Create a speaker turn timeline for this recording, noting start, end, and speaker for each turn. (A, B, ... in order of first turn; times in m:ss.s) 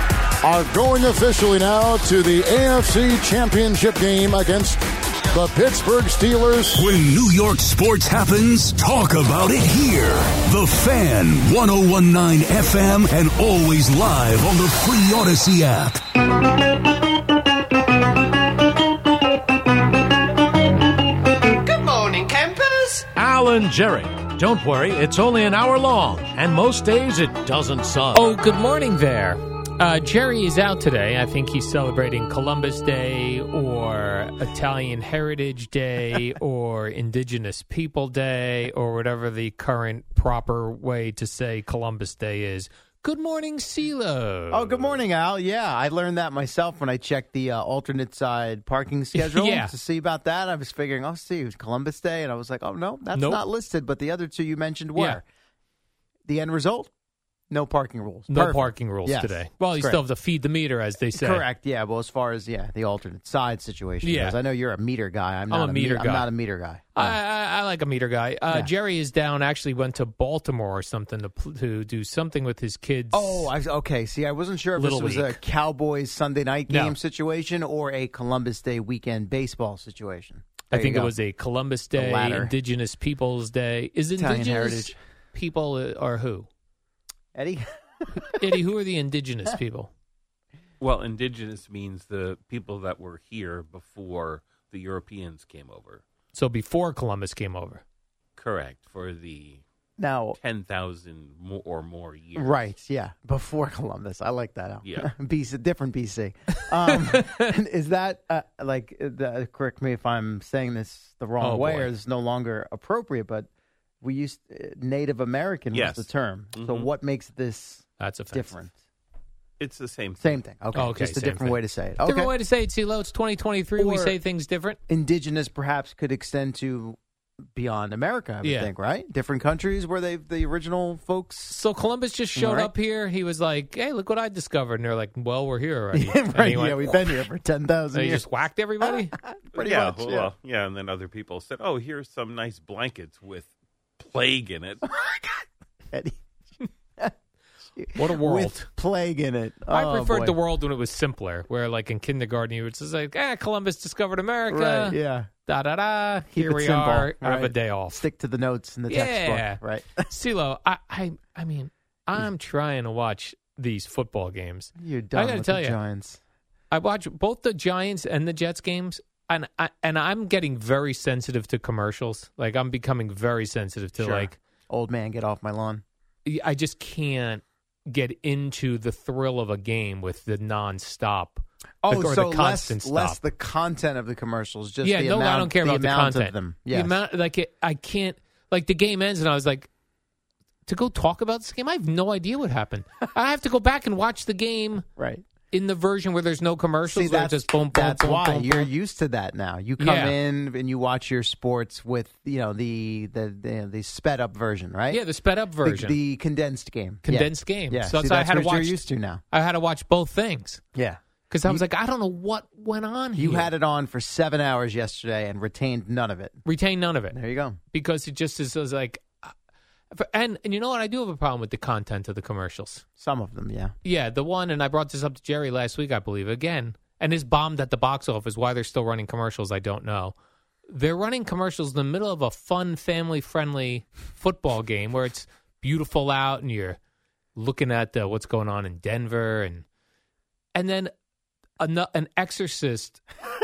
0:00.4-0:06.8 A
0:06.7-0:16.0 B
0:23.0-0:28.4 C
0:28.1-0:45.0 D
0:44.5-0:55.2 E
0:49.1-0:49.7 D
0:53.1-0:53.4 D
0:54.9-0:55.2 D
0:56.3-0:56.9 E
0:57.5-1:00.0 E
0:58.3-1:01.4 D
1:01.1-1:07.2 E
1:04.0-1:04.4 D
1:05.5-1:06.3 D
1:07.0-1:13.5 D
1:13.1-1:21.1 E
1:14.8-1:15.4 D
1:16.7-1:17.0 D
1:20.7-1:26.5 D
1:21.9-1:22.5 E
1:24.2-1:25.0 E
1:27.3-1:27.6 E
1:28.2-1:28.4 E
1:28.4-1:29.9 D
1:30.8-1:36.0 F
1:36.3-1:37.8 D
1:38.4-1:39.6 F
1:40.0-1:40.4 E
1:40.4-1:42.5 F
1:42.4-1:53.5 E
1:51.4-1:51.9 D
1:54.0-1:58.7 E
1:55.7-1:56.9 F
1:58.0-1:58.6 D
1:59.6-2:00.4 F
2:00.2-2:02.3 E
2:00.7-2:04.8 D
2:03.8-2:04.2 E
2:04.9-2:07.0 E
2:07.5-2:11.6 E
2:08.4-2:08.7 D
2:11.5-2:17.1 D
2:12.4-2:12.7 E
2:15.9-2:18.3 E
2:17.9-2:19.1 D
2:18.8-2:20.3 E
2:19.5-2:24.8 F
2:24.9-2:25.3 E
2:25.9-2:26.2 E
2:27.8-2:30.4 E
2:27.9-2:28.7 D
2:29.7-2:38.0 D
2:34.5-2:35.3 E
2:36.3-2:40.1 E
2:38.9-2:45.8 D
2:44.8-2:46.2 E
2:46.7-2:54.4 D
2:54.0-2:55.8 E
2:56.2-3:03.2 D
3:01.8-3:06.9 E
3:04.8-3:09.7 D
3:10.6-3:14.8 D
3:15.0-3:15.2 E
3:15.5-3:18.7 D
3:16.9-3:25.0 E
3:19.8-3:20.2 D
3:24.9-3:26.0 D
3:25.6-3:29.2 E
3:27.0-3:30.6 D
3:30.7-3:31.6 E
3:31.3-3:33.5 D
3:33.2-3:36.4 E
3:36.4-3:37.2 D
3:37.1-3:37.6 E
3:37.7-3:39.3 D
3:39.9-3:42.8 D
3:43.0-3:43.7 E
3:43.8-3:50.1 D
3:50.7-3:56.8 D
3:57.3-3:59.6 D
4:00.5-4:00.9 D
4:01.6-4:03.0 D